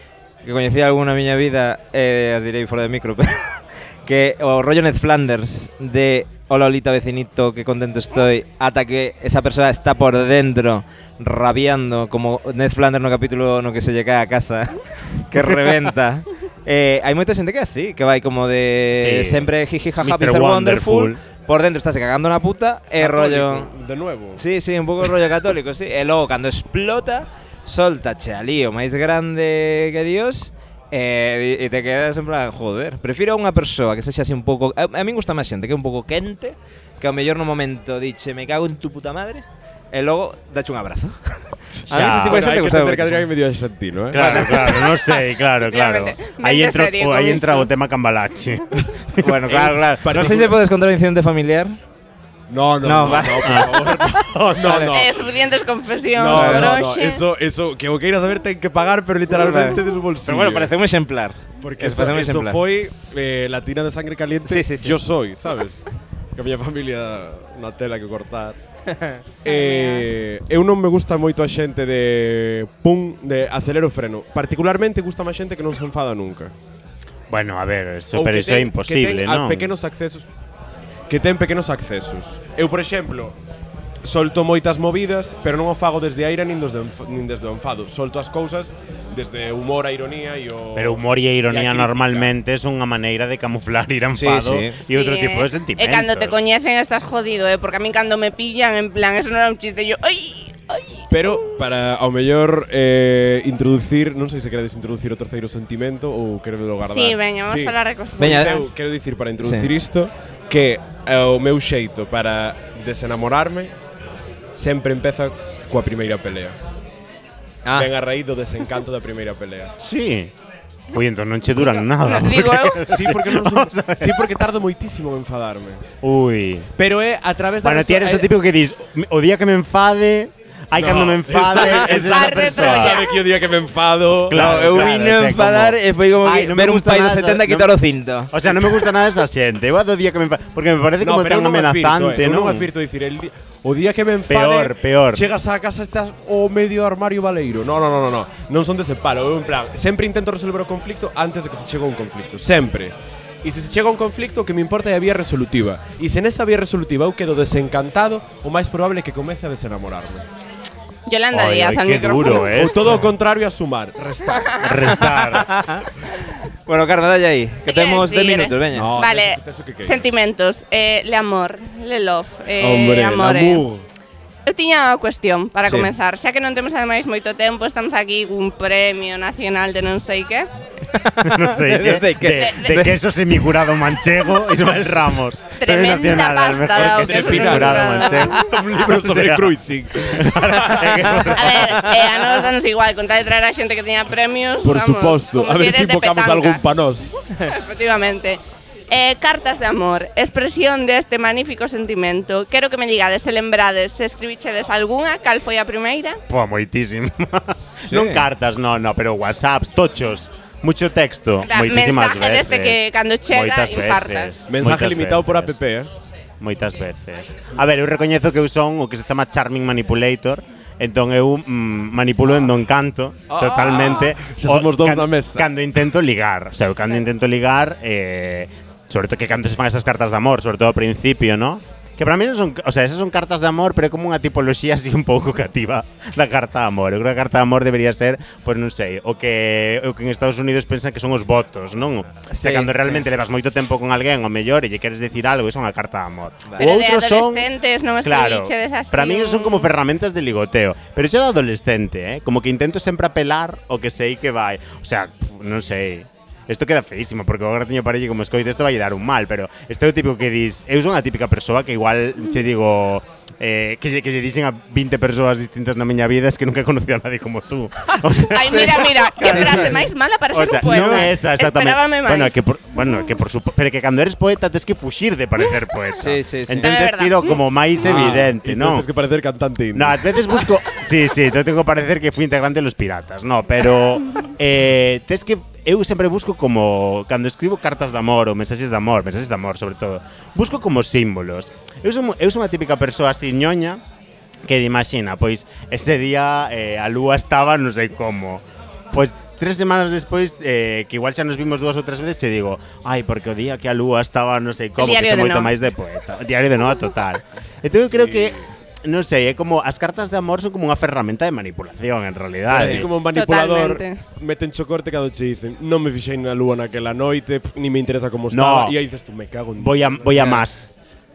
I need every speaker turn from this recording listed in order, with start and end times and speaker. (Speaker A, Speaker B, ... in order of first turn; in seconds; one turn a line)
Speaker A: 0.4-23.7
Speaker B: 18.9-19.5
Speaker B: 20.0-21.2
Speaker C: 23.0-24.4
Speaker A: 24.4-43.3
Speaker C: 41.7-44.8
Speaker B: 41.9-42.5
Speaker B: 44.1-49.2
Speaker A: 44.1-44.8
Speaker D: 45.6-47.7
Speaker A: 49.2-51.8
Speaker C: 49.5-50.5
Speaker C: 52.5-55.3
Speaker A: 52.8-54.9
Speaker B: 53.4-53.7
Speaker D: 54.9-57.2
Speaker C: 56.1-60.7
Speaker A: 56.3-56.7
Speaker A: 59.3-62.6
Speaker C: 61.6-68.6
Speaker A: 64.5-65.0
Speaker C: 69.4-76.5
Speaker D: 69.5-70.1
Speaker B: 77.3-79.7
Speaker C: 78.1-80.3
Speaker C: 81.1-83.4
Speaker C: 84.0-92.3
Speaker B: 90.8-96.4
Speaker A: 94.1-94.8
Speaker D: 94.8-101.6
Speaker C: 101.1-113.7
Speaker D: 106.8-108.7
Speaker A: 108.2-108.6
Speaker A: 109.4-109.7
Speaker C: 114.5-116.6
Speaker A: 117.6-117.9
Speaker C: 117.7-119.7
Speaker B: 119.8-120.3
Speaker B: 120.9-124.4
Speaker D: 122.0-122.8
Speaker C: 122.8-125.9
Speaker B: 126.0-126.7
Speaker C: 126.8-128.3
Speaker B: 127.6-133.1
Speaker C: 130.7-134.9
Speaker D: 131.8-133.1
Speaker B: 134.3-137.7
Speaker A: 134.3-138.7
Speaker B: 138.3-142.7
Speaker C: 141.0-160.3
Speaker B: 144.3-145.2
Speaker D: 161.1-162.7
Speaker B: 161.3-163.1
Speaker C: 162.4-165.2
Speaker D: 164.3-164.6
Speaker B: 164.5-165.5
Speaker A: 165.2-165.9
Speaker A: 166.7-168.9
Speaker D: 167.7-173.6
Speaker C: 168.7-170.2
Speaker C: 172.6-173.9
Speaker D: 174.4-180.5
Speaker A: 180.9-183.0
Speaker B: 181.2-192.0
Speaker D: 182.4-182.8
Speaker D: 185.6-188.4
Speaker C: 186.8-191.6
Speaker D: 191.3-196.6
Speaker C: 194.6-197.2
Speaker D: 197.4-206.2
Speaker B: 206.3-215.6
Speaker A: 207.9-208.2
Speaker D: 211.4-214.3
Speaker C: 214.5-215.9
Speaker B: 216.4-278.9
Speaker C: 223.3-225.5
Speaker D: 223.5-224.0
Speaker A: 242.3-243.1
Speaker D: 246.6-249.7
Speaker D: 268.3-272.4
Speaker A: 268.4-269.8
Speaker A: 276.0-276.8
Speaker D: 276.6-277.4
Speaker C: 277.8-280.3
Speaker A: 277.8-278.2
Speaker B: 279.7-293.8
Speaker B: 294.4-312.9
Speaker D: 304.8-305.5
Speaker C: 307.8-308.4
Speaker C: 312.5-320.4
Speaker A: 312.5-312.9
Speaker D: 313.0-314.0
Speaker B: 318.3-318.8
Speaker B: 319.6-320.8